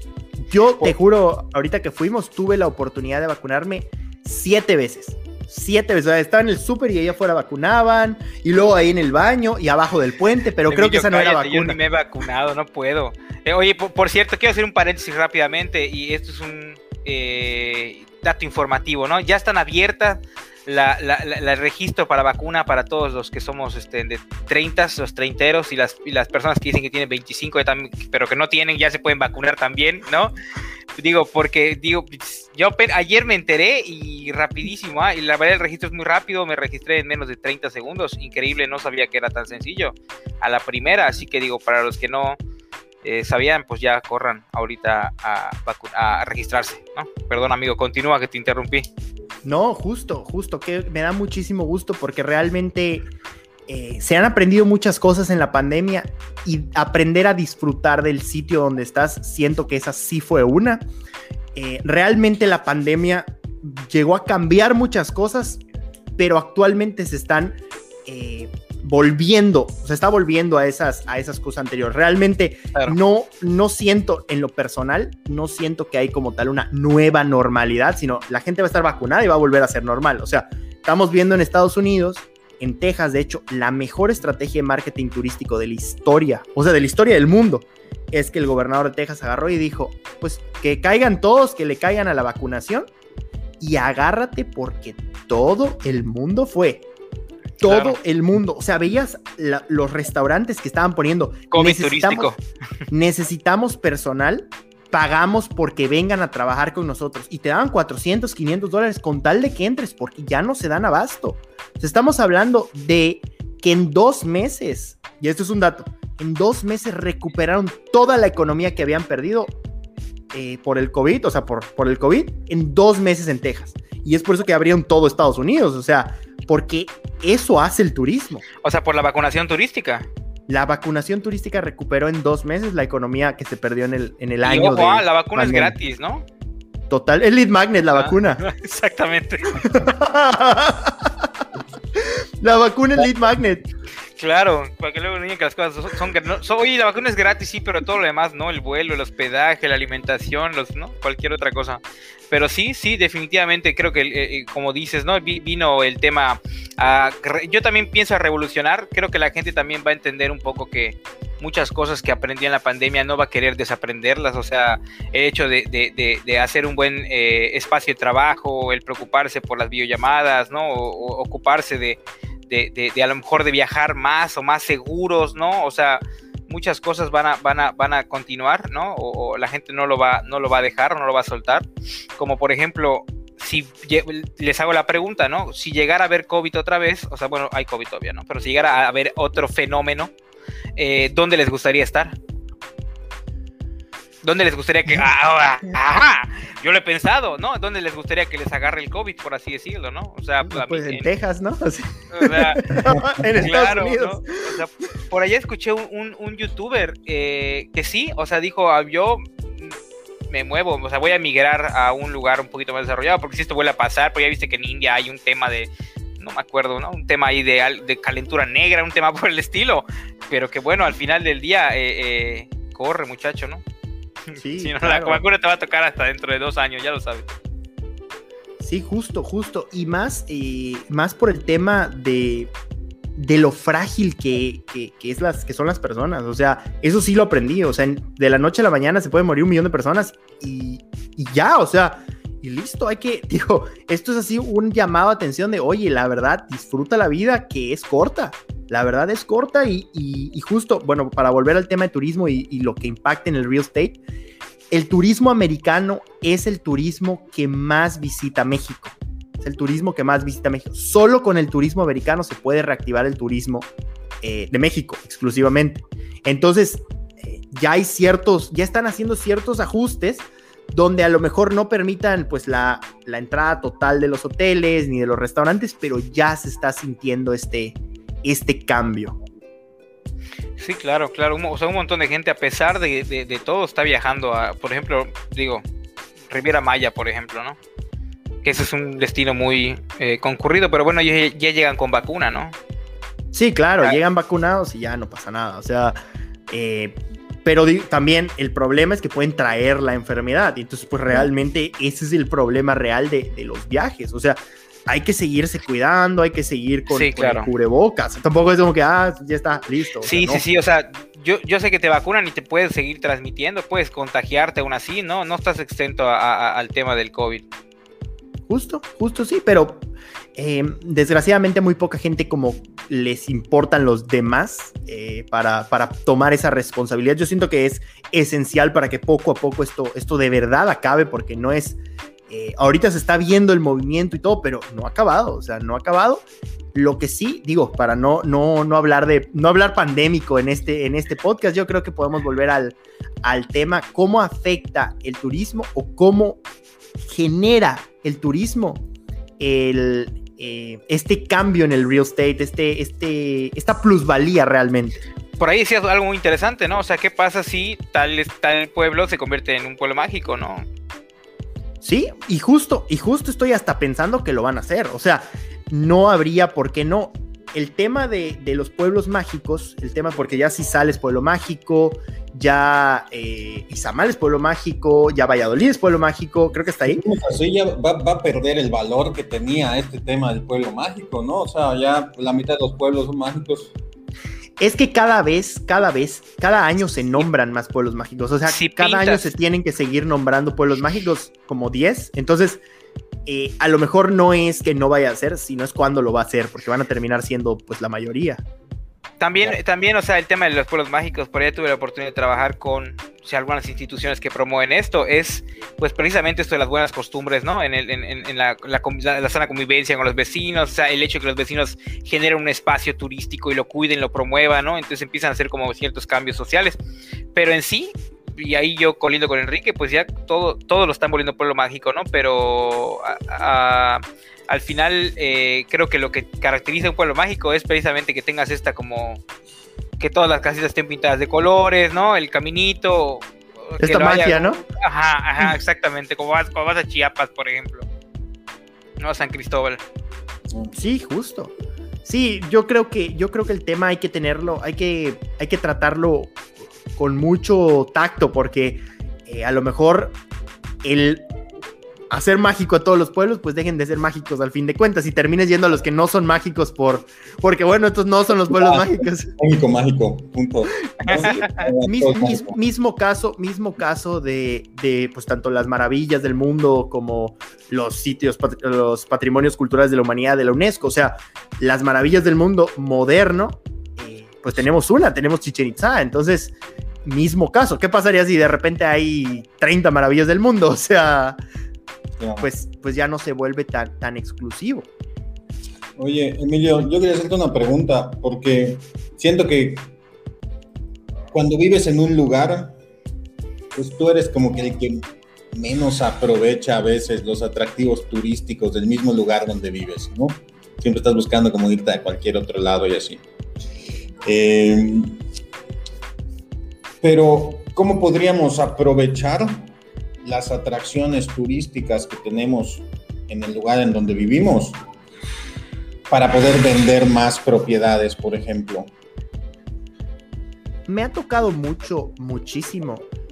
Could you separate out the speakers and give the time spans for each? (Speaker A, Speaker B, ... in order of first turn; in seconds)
Speaker A: 0.4-11.8, 49.4-53.1, 53.7-60.9, 61.5-65.6, 66.2-92.9, 93.6-96.8, 97.6-102.3, 102.9-119.5, 120.3-128.4, 130.5-135.8, 136.9-138.4, 139.6-141.3, 141.9-143.7, 200.4-204.3, 224.4-225.2, 228.6-232.5, 233.2-254.0, 254.7-263.7, 264.2-279.1, 293.3-296.0, 296.5-310.4, 318.5-319.8, 320.4-346.4, 347.0-348.8, 349.4-355.0, 361.8-377.0, 384.6-392.6, 393.2-398.4, 433.8-434.6, 440.7-441.5, 442.0-446.4, 446.9-450.1, 450.8-451.2, 452.1-459.3, 461.1-481.4, 482.4-484.9, 520.9-523.0
Speaker B: 10.7-30.3, 31.0-42.4, 43.0-48.9, 97.6-98.0, 101.5-102.4, 128.6-130.1, 134.4-136.2, 137.9-139.7, 144.2-190.1, 190.8-192.2, 194.2-201.1, 202.1-202.6, 203.4-209.7, 210.3-223.6, 224.3-227.3, 280.6-285.6, 286.3-287.6, 288.4-292.6, 306.9-307.5, 310.0-317.5, 355.4-360.6, 388.4-389.3, 399.2-416.8, 417.3-429.2, 430.0-437.9, 439.0-439.8, 461.0-461.7
Speaker C: 376.9-383.7, 458.5-462.5, 482.2-482.5, 486.0-489.9, 491.3-492.8, 493.7-503.2, 504.2-505.2, 507.0-509.7, 510.2-514.8, 516.1-518.9